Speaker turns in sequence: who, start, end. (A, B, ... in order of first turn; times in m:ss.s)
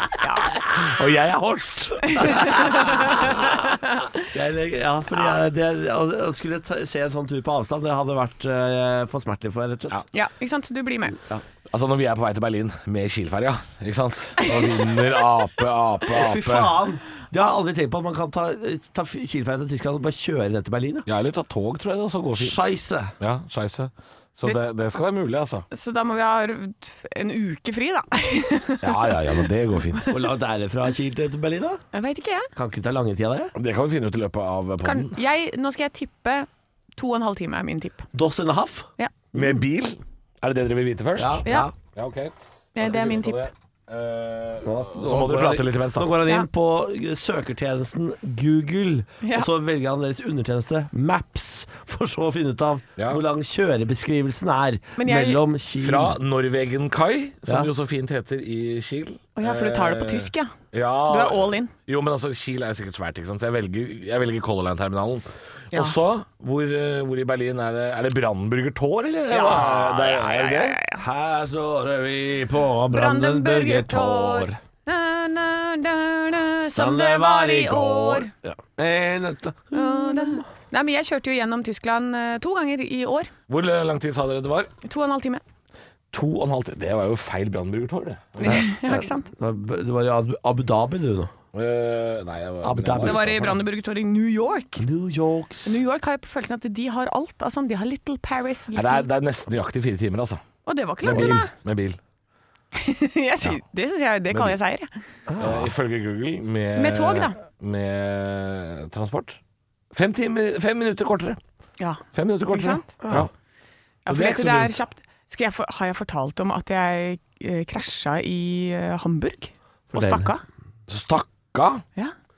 0:00.2-0:00.5 A
0:00.6-0:03.5 B
0:02.1-0:04.2 A
0:02.2-0:03.1 C
0:04.3-0:10.0 C
0:10.1-0:11.2 A
0:11.7-0:16.7 B
0:16.1-0:21.0 C
0:21.0-0:22.6 B
0:22.4-0:23.1 C
0:23.2-0:25.6 B
0:25.7-0:29.1 A
0:28.8-0:30.0 B
0:30.1-0:31.8 C
0:31.9-0:32.5 A
0:32.6-0:33.5 C
0:33.6-0:35.2 B
0:34.8-0:38.0 A
0:38.1-0:38.9 C
0:39.3-0:46.2 B
0:41.2-0:41.7 C
0:41.4-0:41.7 A
0:42.7-0:43.4 A
0:44.6-0:56.2 C
0:46.2-0:46.5 A
0:49.2-0:49.5 A
0:53.0-0:53.2 B
0:55.0-0:55.4 A
0:55.8-1:10.8 B
0:59.4-1:00.5 A
1:01.0-1:01.7 A
1:09.3-1:11.0 A
1:09.5-1:09.8 C
1:10.9-1:14.6 C
1:12.9-1:18.3 A
1:16.6-1:20.4 C
1:19.7-1:23.3 A
1:23.5-1:24.7 B
1:24.8-1:25.4 A
1:26.1-1:28.7 B
1:28.4-1:29.3 A
1:28.4-1:31.3 C
1:31.5-1:33.6 B
1:32.6-1:33.6 C
1:33.0-1:34.8 A
1:34.8-1:35.8 C
1:35.6-1:39.1 A
1:38.7-1:40.4 B
1:40.6-1:41.5 A
1:41.0-1:42.0 B
1:42.7-1:44.9 A
1:44.3-1:44.6 B
1:45.3-1:45.7 C
1:45.4-1:49.4 B
1:46.7-1:47.4 A
1:49.9-1:51.4 B
1:51.8-1:52.9 A
1:52.1-1:53.3 B
1:53.0-1:53.3 C
1:54.0-2:00.4 A
1:54.1-1:54.8 B
1:59.9-2:00.3 C
2:00.9-2:01.8 B